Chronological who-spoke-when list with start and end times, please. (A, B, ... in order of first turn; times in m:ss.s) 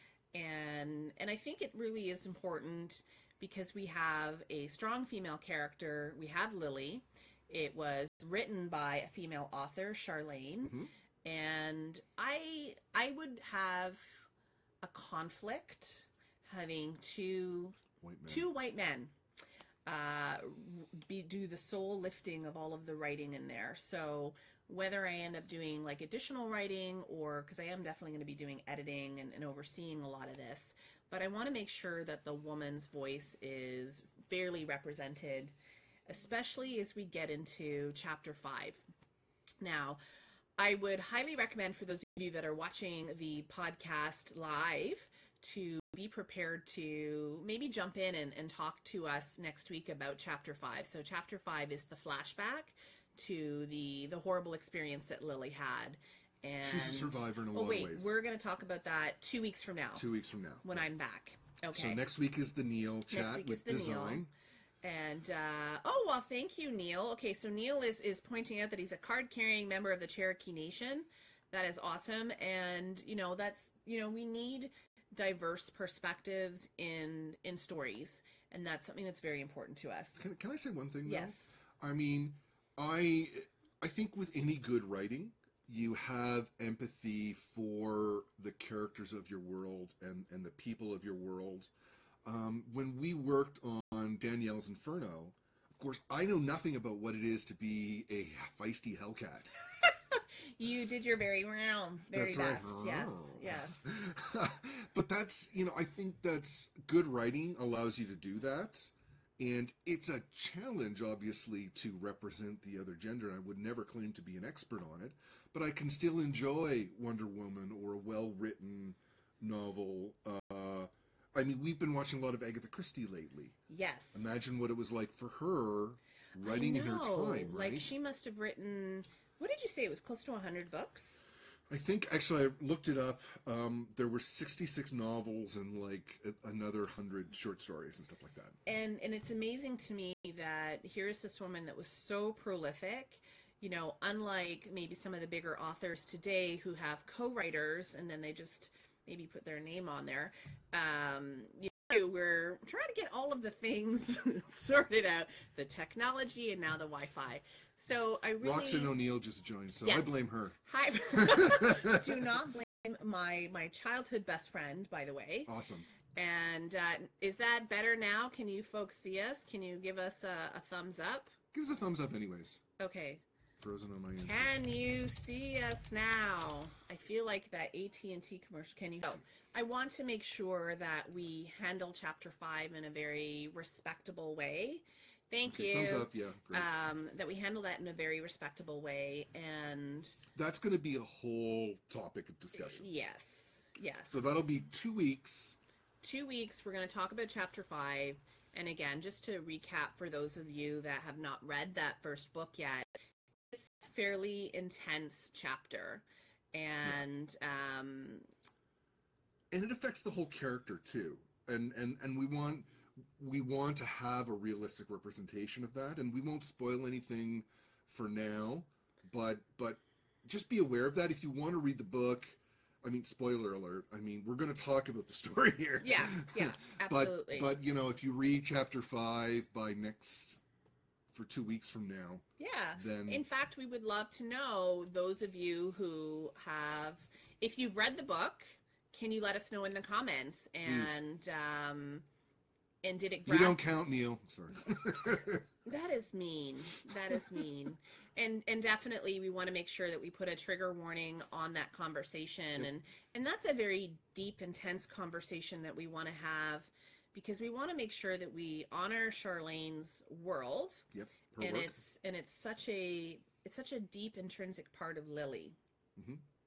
0:00.3-0:14.2 A
0:10.6-0:10.9 B
0:14.8-0:19.1 A
0:18.0-0:18.5 B
0:19.9-0:35.6 A
0:36.1-0:38.8 A
0:39.6-0:40.0 A
0:40.6-1:00.1 A
0:56.6-0:58.2 B
1:00.0-1:00.9 B
1:00.6-1:02.0 A
1:01.7-1:04.3 B
1:03.1-1:04.3 A
1:04.8-1:20.3 A
1:20.2-1:31.7 B
1:21.0-1:21.6 A
1:32.2-1:39.5 B
1:39.8-1:44.0 A
1:42.1-2:03.6 B
2:03.7-2:04.5 A
2:04.1-2:07.9 B
2:06.4-2:11.2 A
2:11.7-2:18.6 B
2:18.7-2:38.9 A
2:38.4-2:42.3 B
2:39.8-2:45.5 A
2:45.5-2:45.9 B
2:46.1-2:51.4 A
2:51.5-2:52.6 B
2:52.8-2:53.2 A
2:53.6-2:54.5 B
2:54.2-3:10.2 A
3:05.4-3:06.7 B
3:10.4-3:12.9 B
3:12.6-3:14.5 A
3:14.1-3:15.6 B
3:16.0-3:22.9 A
3:23.5-3:28.3 A
3:29.5-3:50.4 B
3:45.8-3:47.6 A
3:51.1-3:52.2 B
3:52.4-4:02.0 A
3:52.8-3:53.2 B
4:00.6-4:01.0 B
4:02.8-4:03.6 A
4:03.3-4:05.5 B
4:05.6-4:20.9 A
4:07.1-4:07.4 B
4:20.9-4:21.8 B
4:21.4-4:25.6 A
4:26.0-4:26.2 B